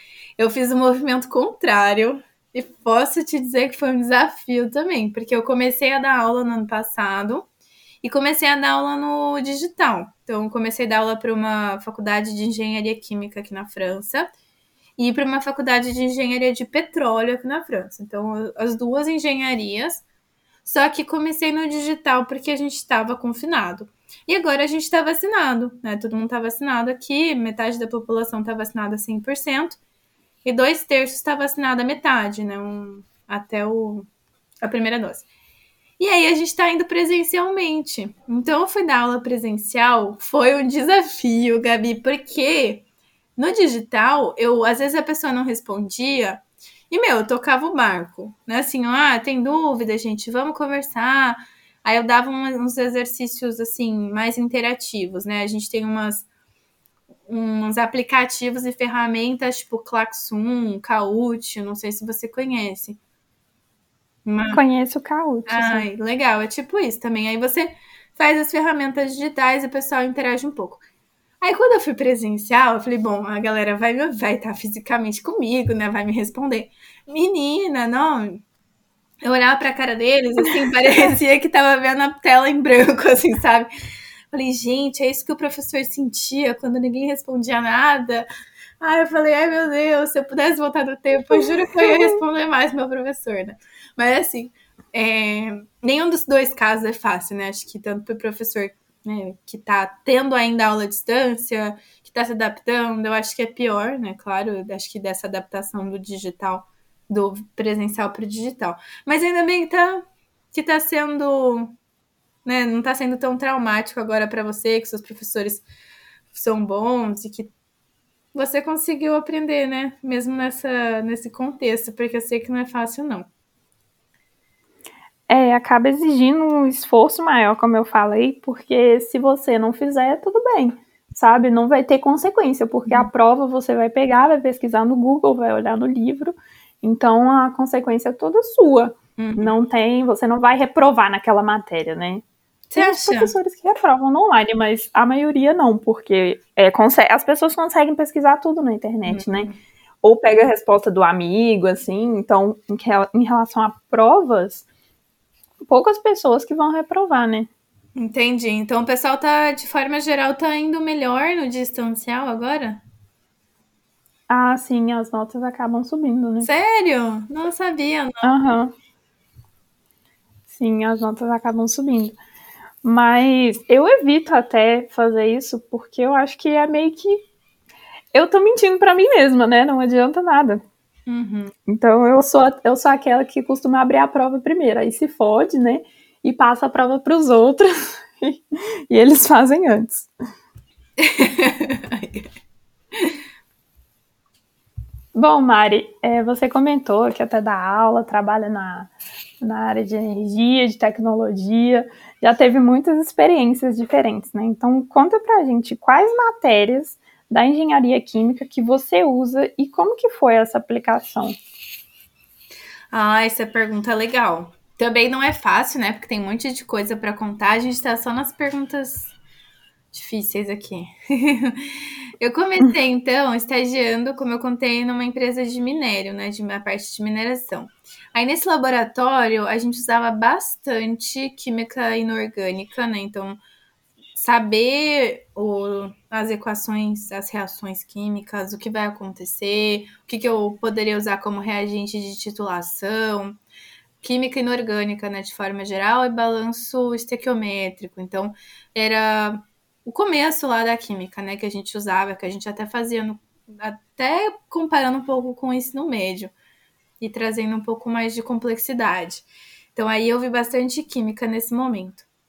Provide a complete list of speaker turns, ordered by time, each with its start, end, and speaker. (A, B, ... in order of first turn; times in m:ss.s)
0:00.4-0:07.5 A
0:08.0-0:14.3 A
0:15.0-0:20.0 A
0:20.6-0:29.8 A
0:30.4-0:34.1 A
0:34.6-0:35.2 A
0:36.0-0:42.8 A
0:43.4-0:56.3 A
0:57.3-1:03.0 A
1:04.2-1:04.6 A
1:04.5-1:05.8 B
1:05.5-1:10.8 A
1:11.4-1:18.4 A
1:19.2-1:23.7 A
1:24.3-1:28.2 A
1:28.8-1:51.7 A
1:52.4-1:55.6 A
1:56.3-1:57.5 A
1:58.3-2:03.3 A
2:05.3-2:22.2 B
2:19.2-2:19.5 A
2:22.7-2:23.3 A
2:22.8-2:29.5 B
2:29.1-2:29.6 A
2:30.0-2:34.6 B
2:35.6-2:37.5 B
2:38.0-2:42.8 A
2:44.3-2:46.5 B
2:46.4-2:48.3 A
2:48.2-2:48.7 B
2:50.5-2:52.2 B
2:52.8-2:57.2 B
2:58.1-3:00.6 B
3:01.1-3:01.5 A
3:01.6-3:10.1 B
3:11.0-3:12.3 A
3:15.1-3:31.4 B
3:32.9-3:39.1 A
3:39.9-3:53.4 A
3:54.1-4:03.4 A
4:04.0-4:16.3 A
4:17.0-4:22.1 A